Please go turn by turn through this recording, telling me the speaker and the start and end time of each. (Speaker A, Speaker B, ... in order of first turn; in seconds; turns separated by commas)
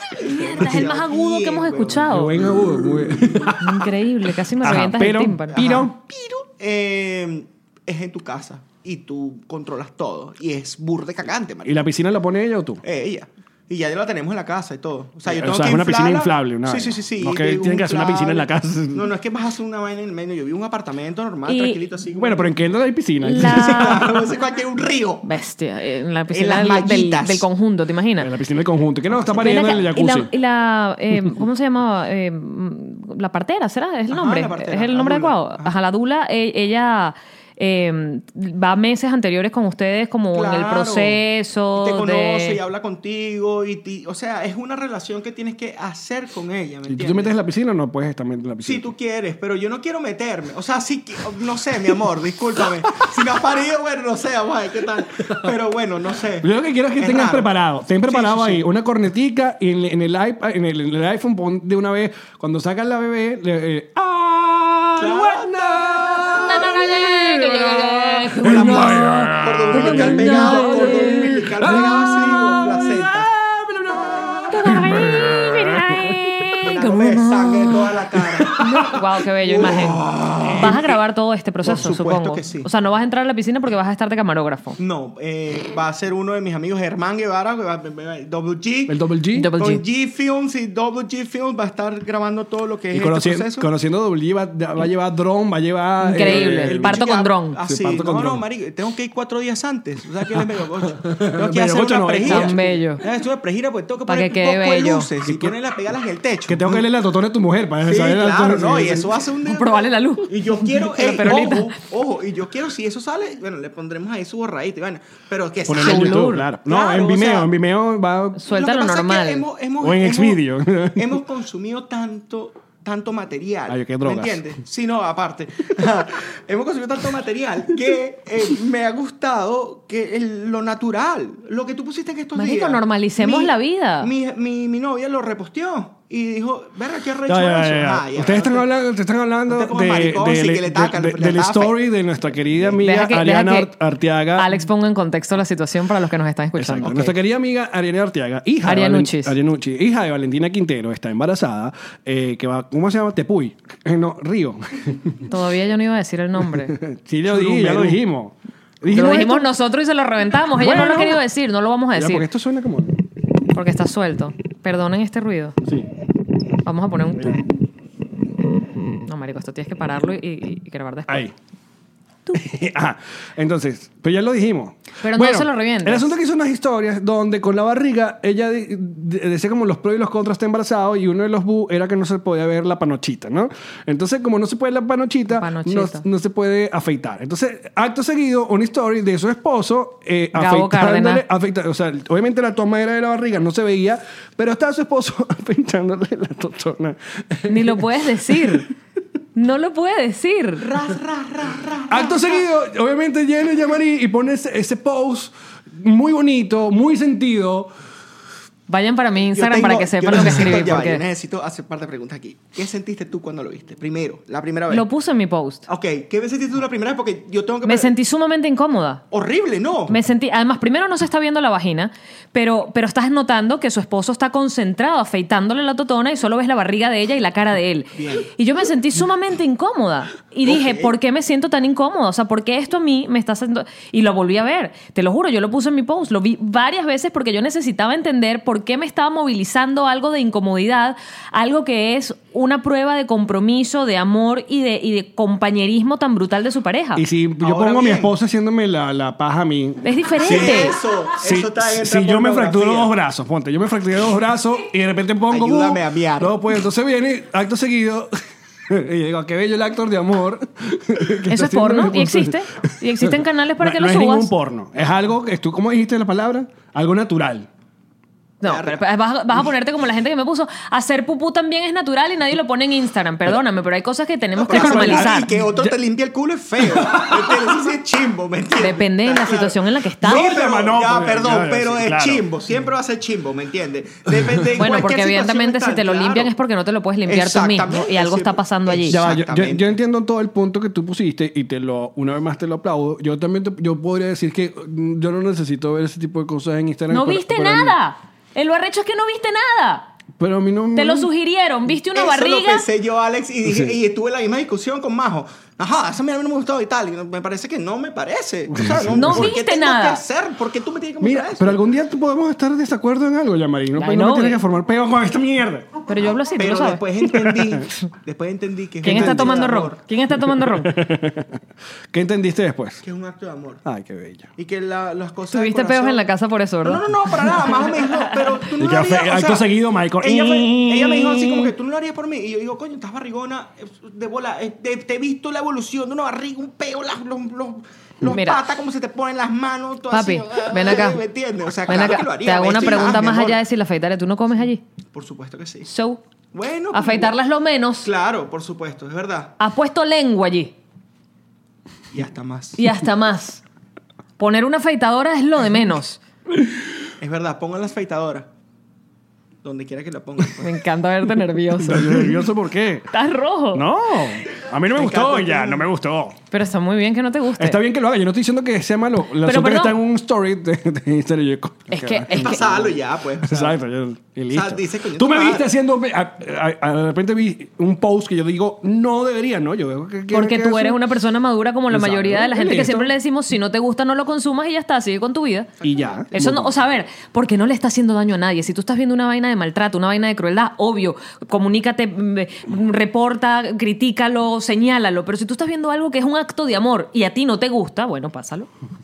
Speaker A: 0.2-2.3, Speaker B: 0.2-2.4, Speaker C: 2.0-3.9, Speaker B: 3.6-5.8, Speaker C: 4.6-5.9, Speaker A: 5.5-11.8, Speaker C: 11.6-12.8, Speaker A: 12.8-22.6, Speaker C: 15.2-19.1, Speaker B: 21.5-21.8, Speaker C: 22.1-24.1, Speaker B: 23.2-24.1, Speaker A: 23.4-25.3, Speaker B: 25.2-28.3, Speaker A: 26.3-27.4, Speaker C: 28.2-30.3, Speaker A: 29.2-29.8, Speaker B: 29.4-42.6, Speaker A: 34.1-35.7, Speaker A: 40.3-41.2, Speaker A: 41.7-47.3, Speaker C: 46.9-48.9, Speaker A: 48.6-57.5, Speaker C: 55.1-55.5, Speaker C: 56.4-76.3, Speaker A: 58.0-58.6, Speaker A: 65.0-66.8, Speaker B: 66.3-71.4, Speaker A: 68.4-73.3, Speaker B: 74.5-77.8, Speaker A: 76.6-78.6, Speaker C: 78.3-79.0, Speaker B: 78.5-84.8, Speaker A: 79.4-80.9, Speaker C: 80.4-80.8, Speaker A: 81.6-82.7, Speaker A: 84.8-89.0, Speaker C: 88.9-89.5, Speaker B: 89.3-89.8, Speaker A: 89.6-93.7, Speaker C: 92.9-97.0, Speaker B: 96.0-97.6, Speaker A: 96.2-106.9, Speaker C: 97.7-98.4, Speaker C: 100.3-102.8, Speaker B: 102.2-103.0, Speaker B: 104.1-105.1, Speaker C: 105.2-105.5, Speaker C: 106.5-109.2, Speaker A: 107.8-117.5, Speaker B: 109.4-111.8, Speaker C: 115.7-118.4, Speaker B: 115.8-116.4, Speaker B: 118.4-119.4, Speaker A: 118.5-138.7, Speaker C: 119.8-121.2, Speaker C: 123.7-124.5, Speaker B: 132.3-134.1, Speaker C: 137.3-144.5, Speaker A: 139.5-141.8, Speaker B: 142.8-143.7, Speaker B: 144.3-146.9, Speaker C: 146.6-155.2, Speaker A: 146.8-147.1, Speaker B: 148.6-149.3, Speaker B: 155.3-156.8, Speaker C: 156.5-159.5, Speaker A: 157.3-157.9, Speaker B: 158.9-162.2, Speaker C: 160.6-161.2, Speaker C: 161.9-163.0, Speaker B: 163.5-165.6, Speaker B: 166.6-167.4, Speaker B: 169.0-171.3, Speaker C: 171.1-171.3, Speaker C: 172.3-198.6, Speaker B: 175.0-176.1, Speaker B: 185.3-186.0, Speaker B: 190.3-191.2, Speaker B: 197.5-198.7, Speaker B: 199.3-200.7, Speaker A: 200.6-202.4, Speaker C: 201.9-207.7, Speaker B: 208.7-211.0, Speaker A: 209.3-214.8, Speaker B: 214.7-215.6, Speaker A: 215.7-217.9, Speaker B: 217.6-219.0, Speaker A: 219.1-220.0, Speaker B: 219.9-247.0, Speaker A: 227.9-228.3, Speaker A: 230.4-230.9, Speaker C: 246.9-258.1, Speaker A: 247.4-248.1, Speaker B: 249.8-250.8, Speaker A: 250.2-252.9, Speaker A: 255.3-256.4, Speaker C: 258.7-267.5, Speaker B: 261.3-264.3, Speaker B: 268.4-275.3, Speaker A: 268.4-268.8, Speaker A: 274.4-286.3, Speaker C: 274.5-275.7, Speaker C: 276.6-277.5, Speaker B: 278.6-280.3, Speaker C: 280.0-282.3, Speaker B: 284.6-289.0, Speaker A: 287.1-289.7, Speaker C: 288.9-297.8, Speaker B: 296.9-299.9, Speaker C: 300.2-301.1, Speaker B: 300.7-302.6, Speaker A: 301.9-311.6, Speaker C: 303.4-303.8, Speaker C: 308.5-309.3, Speaker B: 308.9-310.0, Speaker C: 311.0-315.9, Speaker B: 313.7-314.4, Speaker B: 315.9-316.8, Speaker A: 316.4-319.8, Speaker C: 317.0-317.6, Speaker B: 318.8-320.7, Speaker C: 318.8-319.3, Speaker C: 320.3-322.8, Speaker A: 322.8-323.6, Speaker C: 323.6-324.3, Speaker A: 324.4-326.0, Speaker B: 325.3-328.1, Speaker A: 326.6-343.4, Speaker C: 328.5-331.5, Speaker B: 338.1-338.4, Speaker B: 339.9-341.0, Speaker B: 341.6-344.6, Speaker A: 344.9-345.7, Speaker B: 345.6-346.0, Speaker A: 346.3-347.1, Speaker B: 346.7-347.9, Speaker A: 347.8-349.4, Speaker B: 349.4-350.5, Speaker A: 351.9-352.6, Speaker B: 352.6-353.4, Speaker B: 354.2-356.0, Speaker A: 357.0-358.3, Speaker A: 359.4-360.6, Speaker B: 360.4-362.1, Speaker C: 361.6-362.9, Speaker B: 362.9-363.6, Speaker C: 363.5-366.2, Speaker A: 364.7-365.7, Speaker B: 366.3-367.6, Speaker C: 367.4-380.8, Speaker B: 369.2-369.8, Speaker B: 371.7-372.4, Speaker A: 372.1-373.6, Speaker A: 374.3-375.5, Speaker B: 380.1-385.5, Speaker C: 381.7-382.9, Speaker A: 385.6-386.1, Speaker C: 385.6-386.5, Speaker B: 386.1-398.5